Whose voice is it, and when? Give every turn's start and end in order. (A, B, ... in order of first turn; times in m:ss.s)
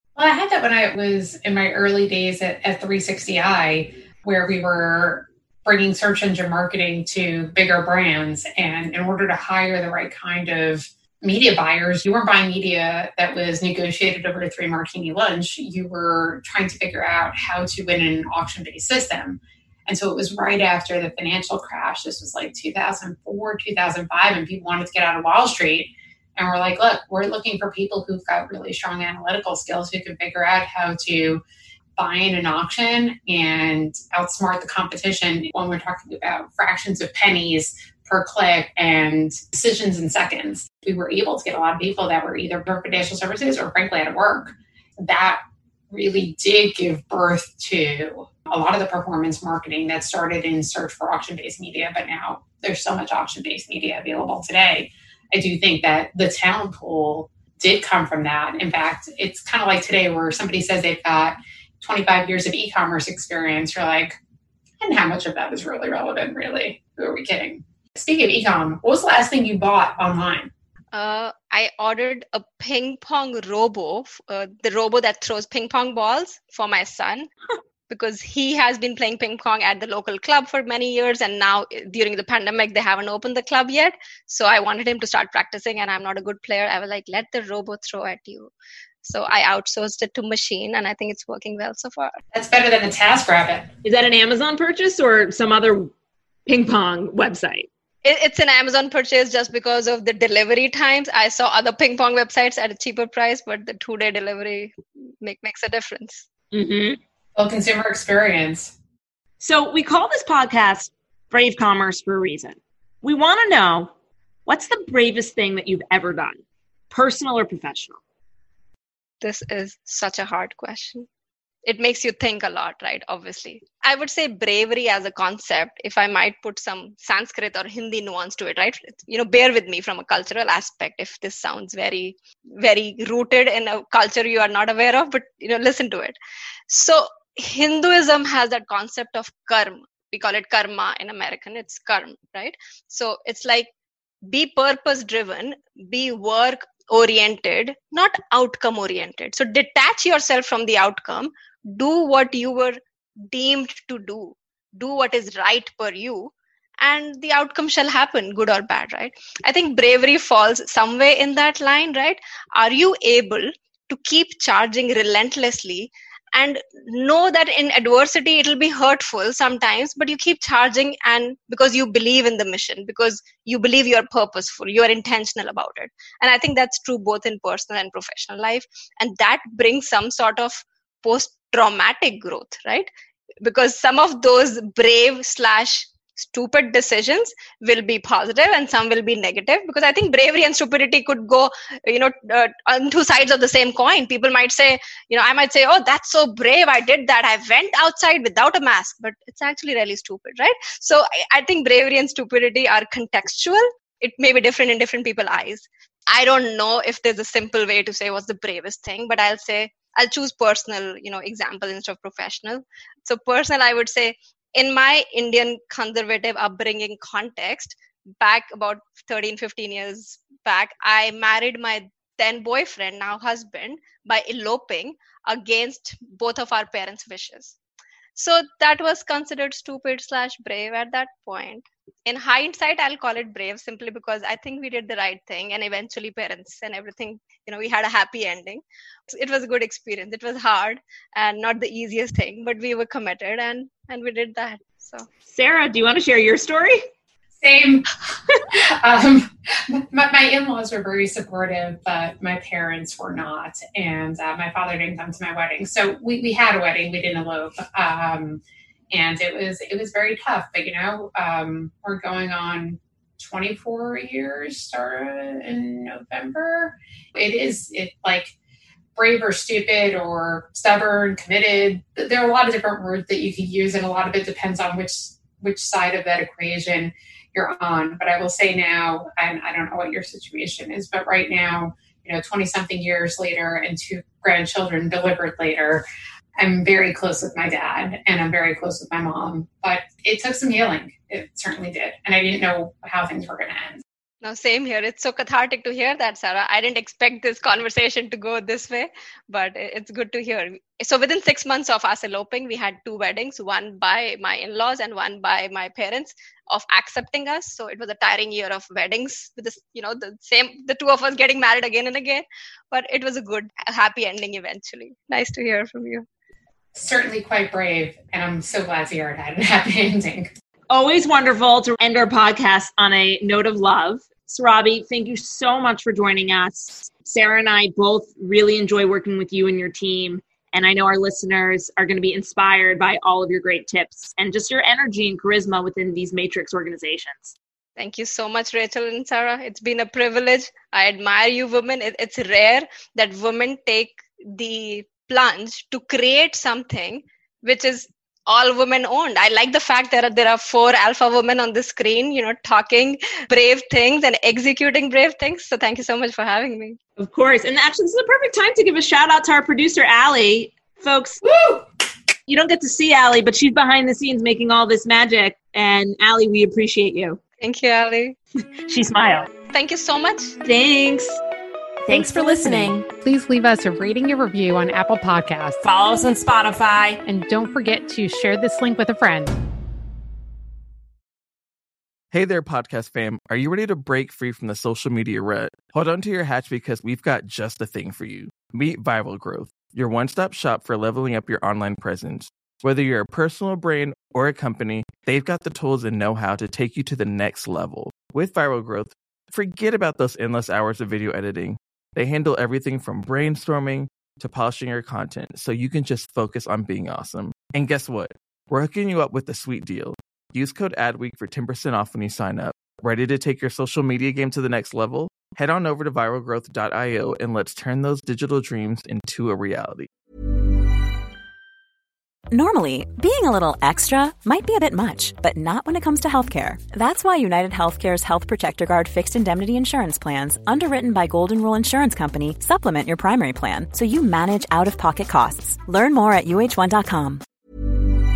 0:00.2-0:31.4 A
0:32.0-1:04.2 A
1:04.8-1:10.5 A
1:10.9-1:17.3 B
1:17.9-1:28.5 B
1:29.0-1:32.2 B
1:32.3-1:33.7 A
1:33.8-1:35.9 C
1:36.5-1:37.7 C
1:38.0-1:46.2 B
1:46.5-1:47.0 C
1:47.4-1:48.7 A
1:49.4-1:53.9 C
1:54.5-1:58.0 C
1:59.2-2:01.1 B
2:01.6-2:16.2 B
2:16.7-2:23.7 B
2:24.3-3:02.9 B
3:03.4-3:47.5 B
3:48.2-4:05.1 B
4:05.3-4:06.8 C
4:07.4-4:08.0 A
4:08.5-4:28.3 A
4:29.0-4:45.8 A
4:46.4-4:53.8 A
4:54.2-5:16.1 B
5:16.8-5:20.3 A
5:20.7-5:37.4 C
5:37.8-5:56.8 B
5:57.0-6:01.6 C
6:02.3-6:07.2 C
6:07.4-6:08.2 B
6:08.7-6:09.3 C
6:09.5-6:10.4 B
6:10.4-6:11.2 C
6:11.9-6:12.8 C
6:11.9-6:15.6 A
6:15.6-6:17.0 C
6:17.0-6:19.4 A
6:22.1-6:59.9 D
7:02.3-7:17.2 E